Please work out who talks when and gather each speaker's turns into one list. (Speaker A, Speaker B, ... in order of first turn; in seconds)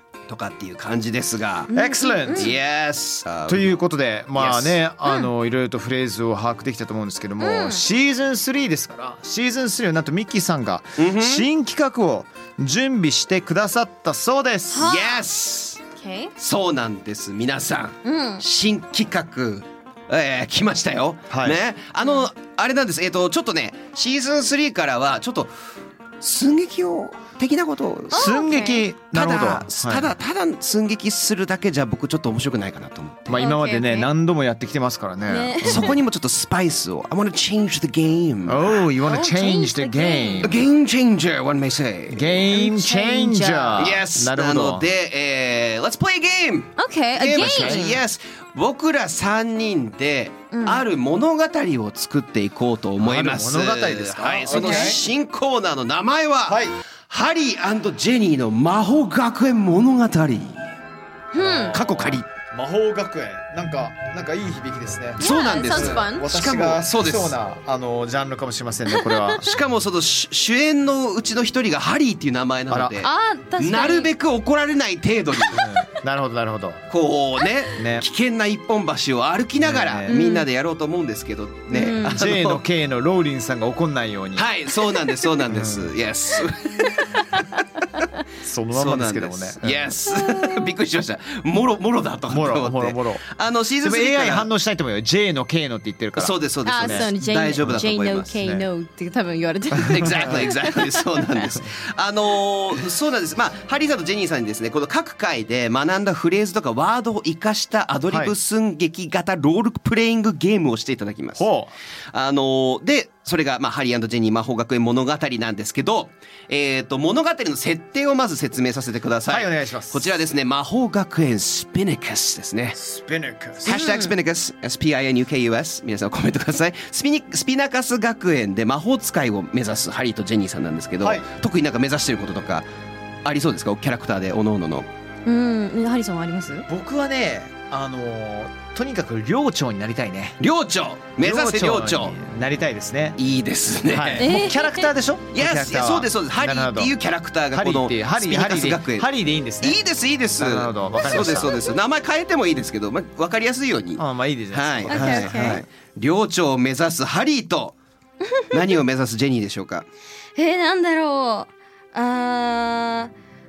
Speaker A: 0.3-1.7, 2.3-3.8, 4.3-4.8, 11.0-11.5, 14.8-15.8, 16.4-25.5, 26.2-28.3, 29.1-33.4, 35.6-38.8, 40.4-42.3, 43.8-60.7, 61.7-62.2, 65.2-67.3, 69.4-75.7, 76.9-82.6, 84.3-87.3, 88.7-94.5, 96.2-98.3, 99.9-111.5, 112.1-122.8, 123.6-132.6, 133.2-134.9, 140.4-142.1, 143.2-144.3, 145.3-149.1, 149.6-157.7, 158.5-159.9
Speaker B: 1.7-2.5, 7.4-7.8, 14.7-15.2, 15.9-16.3, 18.0-18.4, 28.1-28.8, 33.4-34.1, 35.3-36.0, 39.0-40.5, 42.5-43.9, 46.8-48.0, 50.5-50.8, 54.5-55.0, 61.3-61.8, 65.2-66.3, 68.9-69.3, 73.0-74.1, 80.1-80.4, 81.7-82.2, 86.8-88.0, 90.3-90.6, 96.6-101.3, 123.7-124.1, 135.2-136.7, 144.2-144.9, 151.3-151.7, 154.9-155.6, 158.2-158.5, 160.3-163.1
Speaker C: 1.7-2.5, 3.5-14.9, 21.3-21.6, 28.1-30.1, 33.3-36.0, 38.5-40.6, 42.1-44.9, 47.4-47.9, 53.0-55.0, 56.5-56.8, 61.3-69.6, 72.7-73.0, 75.5-76.8, 77.8-78.0, 79.6-80.2, 82.0-84.5, 85.5-85.9, 88.4-89.9, 92.3-93.2, 93.8-97.1, 98.4-98.7, 100.0-100.3, 108.1-108.3, 111.4-111.7, 119.3-120.1, 122.8-123.9, 131.0-131.3, 136.7-140.4, 141.2-143.2, 143.9-146.9, 147.5-149.8, 150.4-151.5, 154.0-155.6